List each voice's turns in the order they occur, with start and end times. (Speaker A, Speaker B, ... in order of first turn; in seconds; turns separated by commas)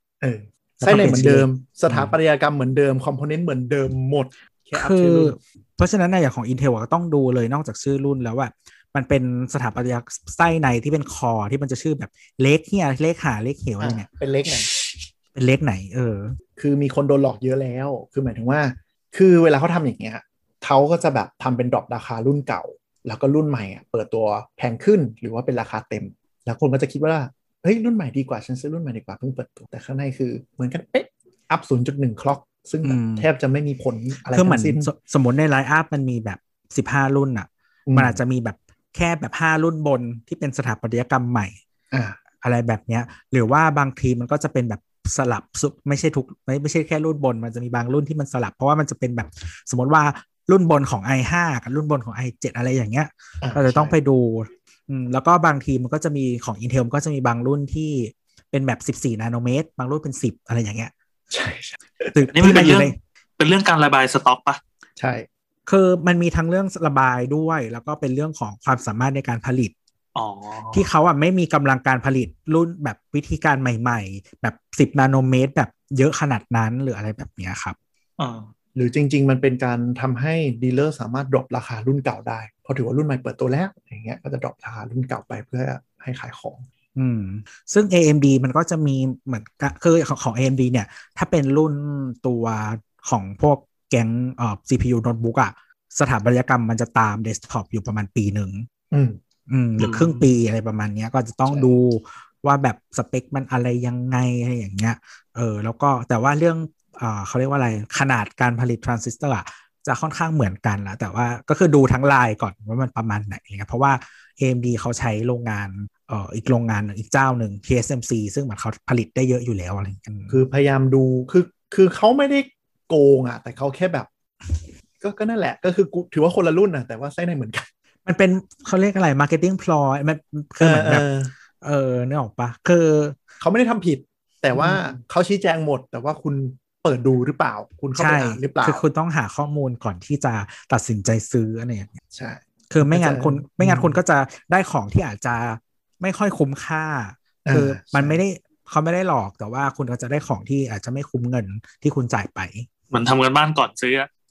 Speaker A: 0.2-5.4, Speaker B: 0.8-2.1, Speaker B: 4.8-14.1, Speaker A: 13.8-14.7, Speaker B: 14.7-16.3, Speaker A: 16.6-34.9, Speaker B: 32.8-33.2, Speaker B: 34.3-41.6, Speaker A: 37.9-38.2, Speaker A: 41.9-42.2, Speaker B: 42.4-60.9, Speaker A: 53.4-54.0, Speaker A: 61.3-62.8, Speaker B: 62.1-63.0, Speaker C: 62.3-64.6, Speaker A: 65.0-65.3, Speaker B: 65.7-69.7, Speaker C: 70.1-70.8, Speaker B: 70.7-77.8, Speaker C: 78.2-78.5, Speaker A: 78.7-86.6, Speaker B: 87.0-98.7, Speaker A: 98.9-99.2, Speaker B: 99.5-120.4, Speaker C: 99.8-100.2, Speaker A: 101.5-101.7, Speaker A: 120.3-124.1, Speaker A: 125.0-127.7, Speaker B: 128.0-131.0, Speaker A: 130.6-131.3, Speaker B: 131.6-133.2, Speaker A: 133.4-138.8, Speaker B: 134.5-134.9, Speaker B: 137.9-142.0, Speaker A: 142.1-144.0, Speaker B: 142.7-152.7, Speaker A: 147.4-148.2, Speaker C: 152.9-154.1